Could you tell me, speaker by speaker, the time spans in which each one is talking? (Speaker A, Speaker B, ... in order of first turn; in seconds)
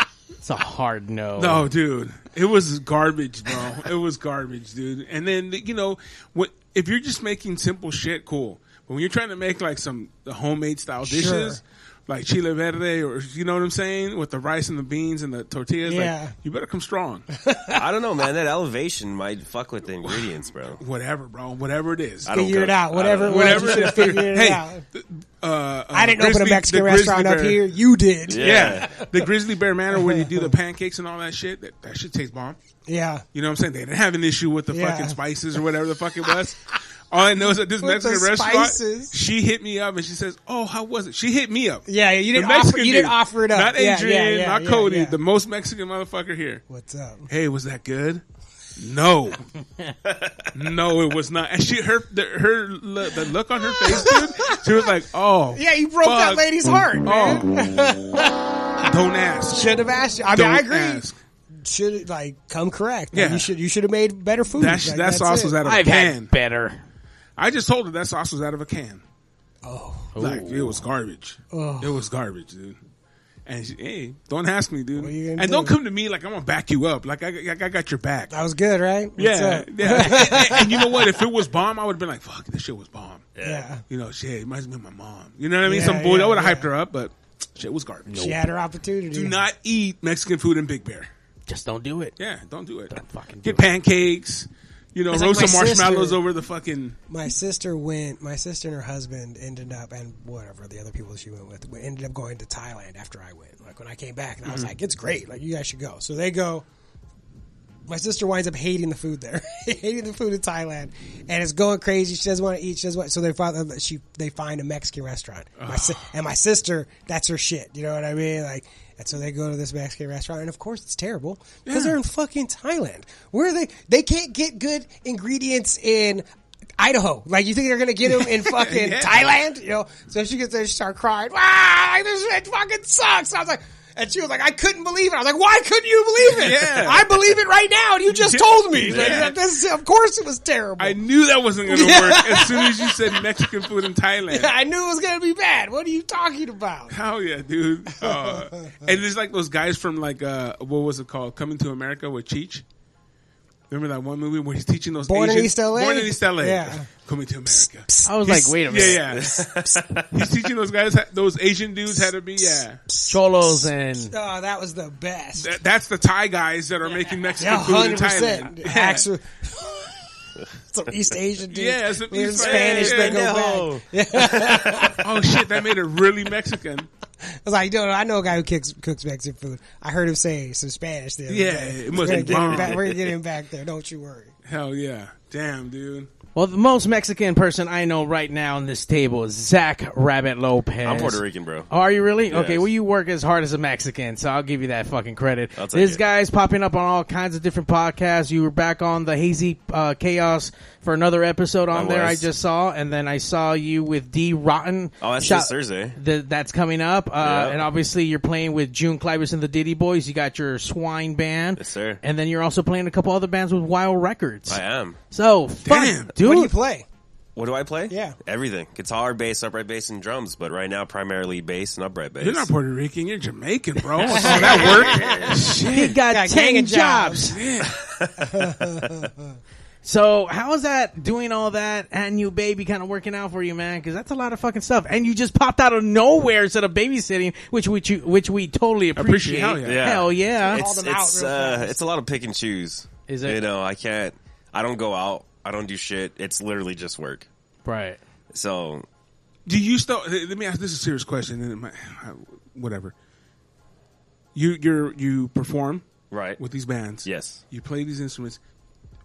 Speaker A: 0.4-1.6, 65.6-66.8, 70.2-70.8, 91.5-92.2, 92.9-93.7, 158.1-159.2, 163.1-164.1, 186.3-214.6, 215.1-216.5, 225.6-227.4, 229.8-240.6, 243.1-243.4, 247.6-248.0
Speaker B: 1.4-17.3, 20.0-22.3, 23.0-27.6, 28.4-32.6, 33.3-46.6, 47.3-48.2, 48.8-49.4, 50.5-56.5, 57.0-57.5, 58.8-61.2, 63.1-63.5, 64.5-66.3, 67.4-69.0, 70.2-72.8, 73.5-78.3, 79.2-83.3, 83.9-88.4, 89.1-91.1, 92.2-97.0, 104.4-104.7, 115.6-116.1, 121.7-121.9, 128.1-129.3, 136.2-137.1, 138.1-139.3, 140.8-144.5, 146.9-152.6, 153.7-159.3, 160.1-162.8, 165.4-169.1, 171.5-173.2, 175.0-176.9, 181.3-182.9, 184.4-186.1, 215.6-216.1, 222.2-226.0, 227.3-227.8, 238.9-240.0, 249.4-252.9, 254.3-255.8, 256.4-258.4
Speaker C: 11.0-11.6, 15.8-16.3, 17.4-17.8, 22.3-24.8, 25.9-29.1, 29.9-30.5, 32.9-33.2, 34.7-35.2, 37.8-39.1, 41.9-45.2, 46.7-47.3, 53.7-54.6, 55.5-58.9, 59.5-61.0, 61.6-65.6, 69.6-70.2, 71.5-72.0, 75.0-75.8, 78.3-81.1, 83.4-83.8, 85.6-86.7, 88.1-89.4, 95.1-96.2, 97.1-106.7, 107.9-126.2, 126.8-141.0, 141.7-143.3, 144.3-146.9, 148.0-148.8, 155.1-156.9, 157.5-158.9, 164.1-165.5, 167.4-170.0, 170.6-175.1, 177.4-184.3, 216.2-216.8, 217.9-218.2, 224.1-225.6, 226.1-227.3, 228.2-229.3, 240.4-241.8
Speaker D: 17.7-20.8, 22.2-24.0, 28.3-29.0, 50.0-50.5, 83.3-83.7, 159.0-160.2, 172.4-174.9, 182.2-182.8, 190.8-191.7, 192.3-192.7, 195.6-196.0, 201.7-202.2, 205.0-206.0, 207.2-207.6, 211.6-212.0, 214.5-215.0, 217.3-222.5, 224.2-225.3, 227.7-228.9, 239.6-247.3, 248.3-248.8, 256.1-256.4, 257.0-257.4